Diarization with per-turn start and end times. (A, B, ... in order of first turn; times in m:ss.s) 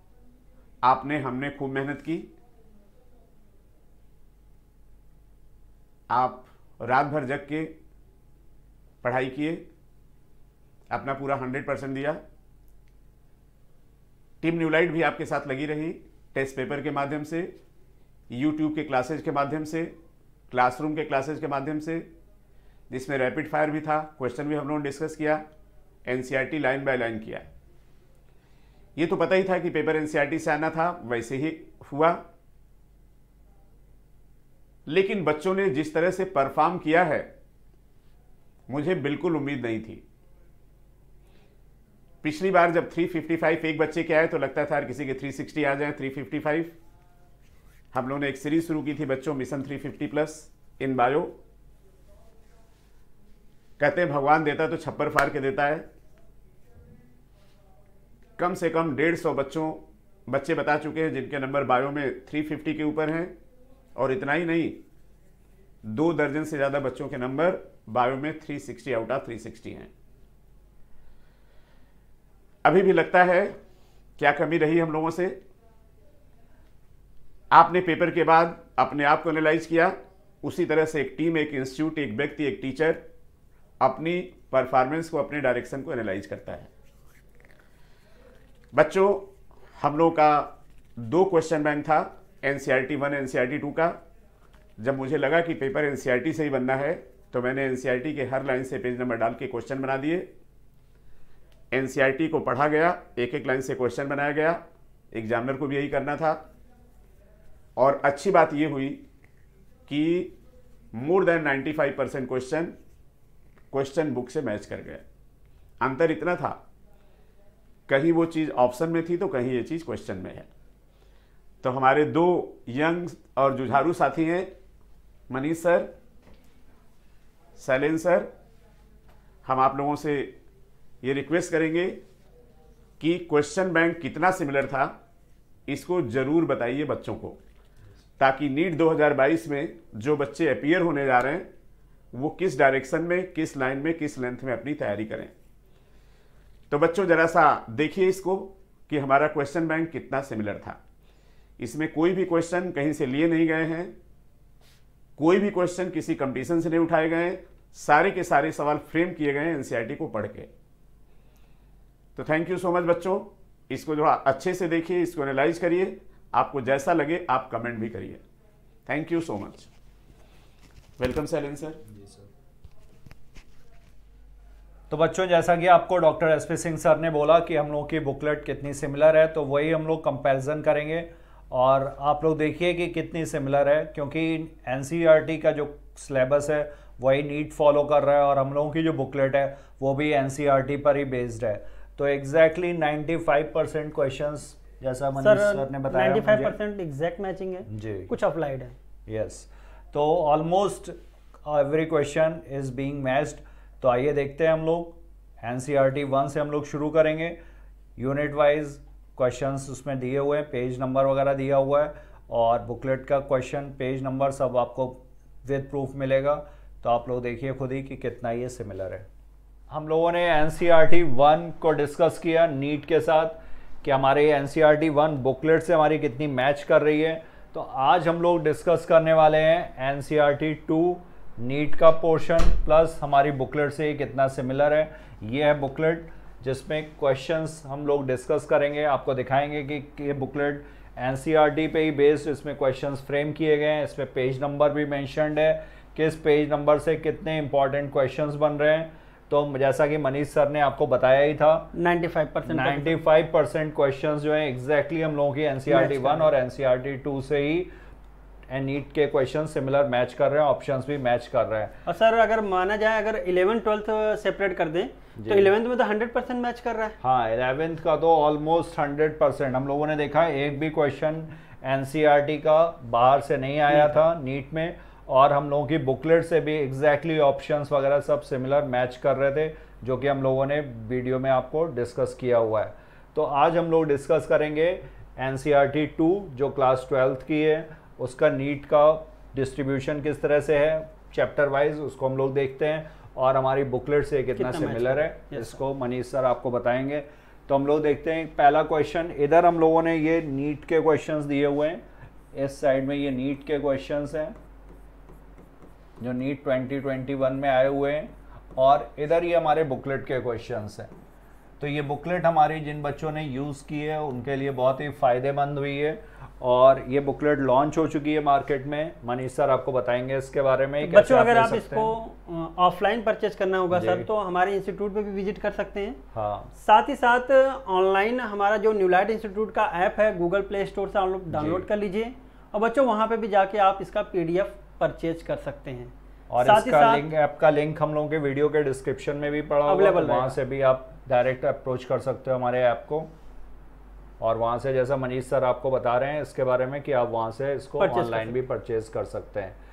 0:00.8-0:02.3 A
0:06.1-0:07.7 A
0:09.0-0:09.7 A
0:10.9-0:12.2 A
0:14.4-0:17.5 A
0:18.3-0:19.9 A
0:20.5-0:22.1 A
0:22.9-0:25.4 A
0:26.1-0:27.5 A
0:29.0-0:32.2 A
0:34.9-0:37.3 A
0:38.7-0:40.0 A
0:42.2-0:46.7 A
0:47.9-0:51.4 A
0:53.8-0:55.9 A
0:58.4-1:03.3 A
1:04.0-1:04.8 A
1:05.8-1:09.9 A
1:12.6-1:13.6 A
1:14.2-1:15.4 A
1:17.5-1:23.0 A
1:23.8-1:26.7 A
1:28.7-1:34.0 A
1:34.8-1:40.3 A
1:41.7-1:46.4 A
1:47.8-1:49.0 A
1:49.9-1:50.4 A
1:50.9-1:52.8 A
1:53.7-1:55.0 A
1:55.8-1:56.6 A
1:57.9-2:00.5 A
2:01.6-2:04.5 A
2:05.3-2:05.9 A
2:07.6-2:08.3 A
2:09.4-2:10.4 A
2:11.0-2:12.0 A
2:13.0-2:14.9 A
2:15.7-2:17.4 A
2:18.2-2:21.5 A
2:22.1-2:25.3 A
2:26.7-2:30.8 A
2:31.6-2:33.9 A
2:35.2-2:40.5 A
2:42.2-2:48.2 A
2:48.9-2:49.7 A
2:51.0-2:51.8 A
2:54.9-3:16.6 B
3:15.2-3:18.8 C
3:17.7-3:18.1 B
3:19.1-3:27.4 B
3:28.0-3:39.1 B
3:39.7-4:11.7 B
4:11.7-4:13.0 C
4:12.5-4:17.7 B
4:15.7-4:16.3 C
4:18.5-4:21.8 B
4:21.9-4:27.0 C
4:25.2-4:25.5 B
4:27.0-5:04.4 B
4:33.7-4:34.0 C
4:54.4-4:55.6 C
5:06.0-5:10.9 B
5:11.6-5:21.9 B
5:20.8-5:26.0 C
5:23.7-5:24.1 B
5:26.1-5:26.5 B
5:26.6-5:37.1 C
5:31.3-5:31.7 B
5:36.3-5:43.1 B
5:39.7-5:40.4 C
5:44.2-5:49.6 B
5:47.8-5:48.4 C